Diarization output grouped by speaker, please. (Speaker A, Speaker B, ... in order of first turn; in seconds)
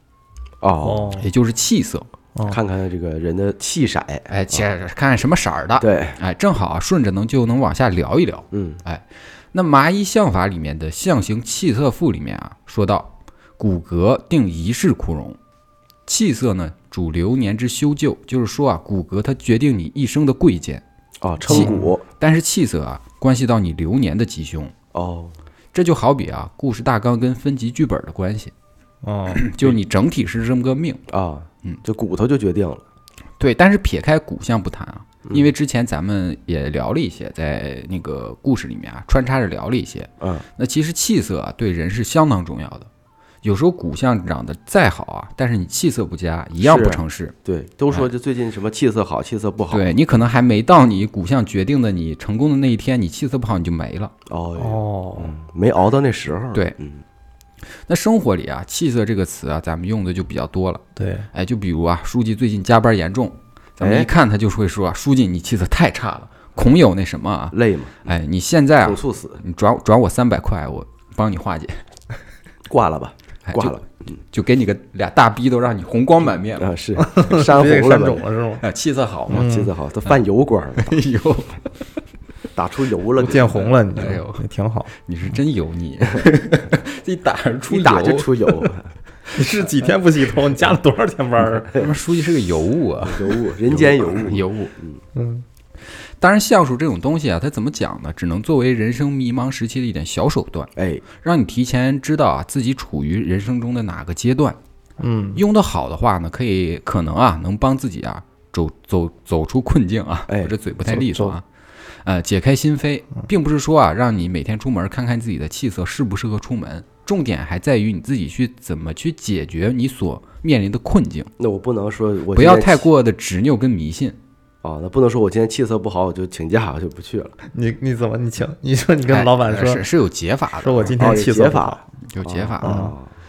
Speaker A: 0.6-1.2, 2.5-4.6, 5.8-6.2, 8.5-8.8, 21.2-22.0, 24.9-25.4, 31.1-32.8, 46.6-49.9, 54.3-57.0, 63.8-64.1, 67.5-68.1, 68.8-69.4, 72.7-74.2, 76.6-78.2, 79.3-81.0, 82.5-83.5, 87.7-88.9, 93.0-95.0, 100.8-101.0, 110.3-110.5, 121.4-122.9, 124.6-127.3, 131.0-133.1
Speaker B: 0.8-1.3, 21.5-21.9, 29.0-29.5, 54.6-55.3, 61.0-61.3, 77.0-78.6, 79.3-79.7, 83.2-84.9, 89.3-91.9, 95.1-95.4, 105.0-105.4, 110.9-111.4, 127.5-129.8, 130.6-131.8, 132.6-132.9
Speaker C: 1.2-2.1, 4.3-15.4, 16.1-20.8, 21.5-24.7, 25.7-28.5, 29.3-31.0, 33.4-42.9, 43.4-47.3, 49.7-54.1, 57.9-71.8, 73.5-73.8, 74.3-76.7, 78.6-79.5, 80.8-81.5, 83.5-84.4, 85.0-88.7, 91.8-94.7, 96.2-104.6, 105.3-111.4, 112.0-121.3, 122.3-124.2, 129.1-131.0, 132.1-132.8